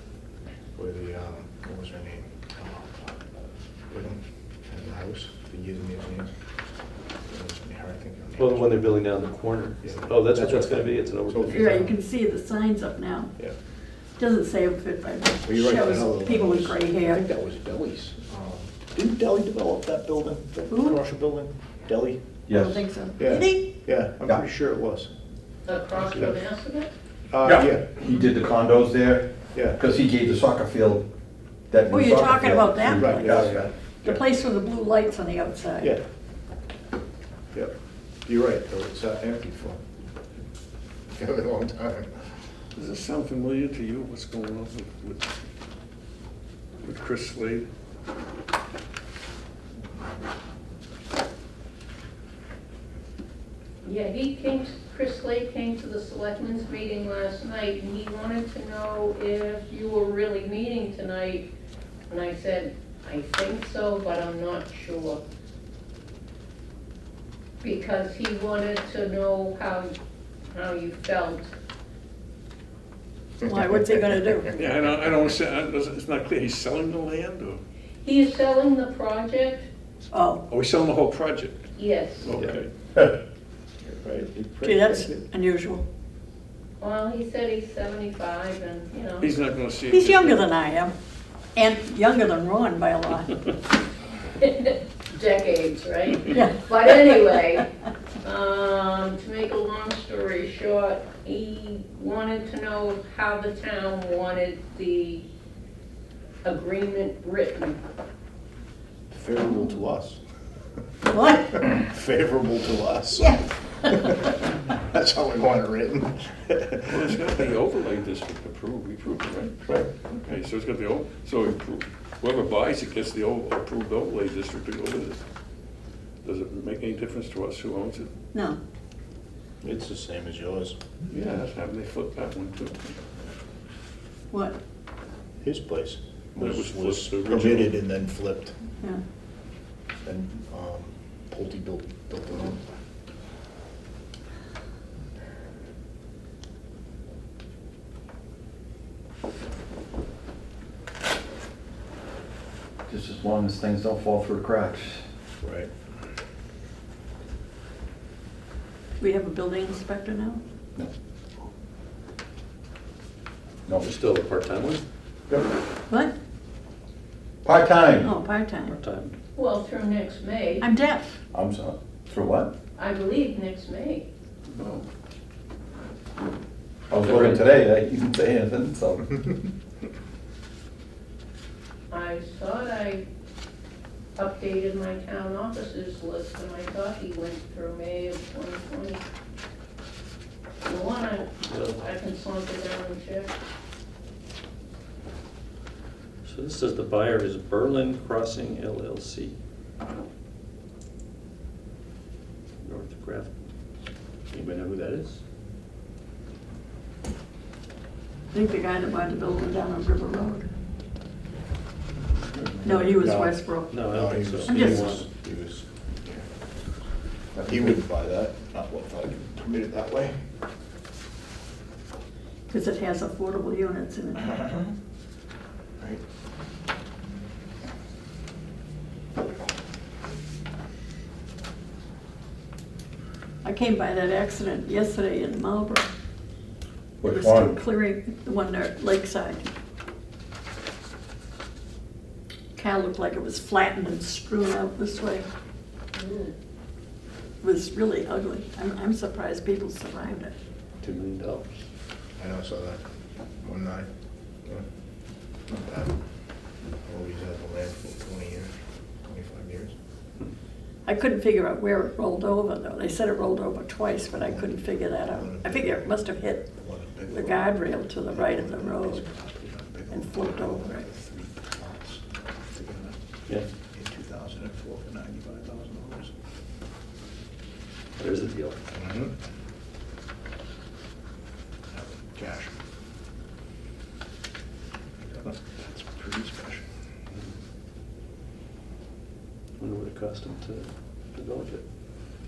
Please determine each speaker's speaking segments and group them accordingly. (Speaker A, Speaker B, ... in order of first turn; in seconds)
Speaker A: 0.8-3.2, 3.9-6.3, 7.2-8.9, 9.8-12.0, 15.4-22.2, 23.2-25.1, 27.3-27.9, 29.5-29.8, 32.9-34.2, 38.2-39.8, 41.1-42.3, 83.8-85.3, 109.1-110.2, 111.6-117.4, 129.6-130.8, 135.4-138.5, 140.0-142.6, 155.4-155.7, 212.8-216.3, 217.4-220.2, 252.2-252.8, 253.4-253.9, 255.5-256.0, 256.7-259.7, 264.1-273.0, 273.7-276.1, 278.7-279.1, 281.7-282.5, 285.1-286.6
Speaker B: 8.4-11.8, 163.8-164.8, 168.7-169.1, 191.4-191.9, 196.2-199.3, 202.6-203.3, 204.3-205.2, 213.7-215.1, 250.8-251.6, 278.0-278.6, 289.6-291.6
Speaker C: 11.5-13.4, 14.2-17.2, 20.7-21.0, 22.5-23.6, 31.9-35.9, 73.4-74.5, 80.1-80.4, 84.6-85.8, 89.9-90.9, 91.5-93.4, 96.3-97.1, 109.4-109.7, 111.0-111.7, 113.2-113.4, 128.3-128.6, 134.3-134.6, 159.0-160.4, 168.0-168.8, 170.6-171.2, 208.3-210.4, 212.6-213.7, 214.4-215.0, 222.5-224.4, 233.4-235.9, 237.0-239.4, 242.6-245.2, 247.4-250.3, 260.9-266.4, 267.1-269.1, 269.9-270.9
Speaker D: 22.5-22.9, 27.4-31.0, 31.7-33.7, 152.9-155.0, 167.4-168.1, 171.3-172.5, 176.9-179.1, 217.4-217.8, 237.0-237.6
Speaker E: 25.6-26.9, 53.8-61.5, 62.1-65.2, 67.6-69.9, 70.5-71.5, 78.0-79.7, 81.8-82.3, 86.8-89.3, 94.4-97.7, 98.2-105.2, 106.4-107.8, 169.3-170.7, 172.8-174.1, 181.9-183.0, 184.2-189.0, 190.6-193.3, 245.9-246.3
Speaker F: 42.7-45.2, 46.8-47.7, 74.5-77.6, 80.5-81.7, 82.2-82.7, 89.2-90.5, 116.9-125.2, 126.2-128.1, 131.1-132.9, 136.3-137.8, 174.5-174.8, 177.1-177.4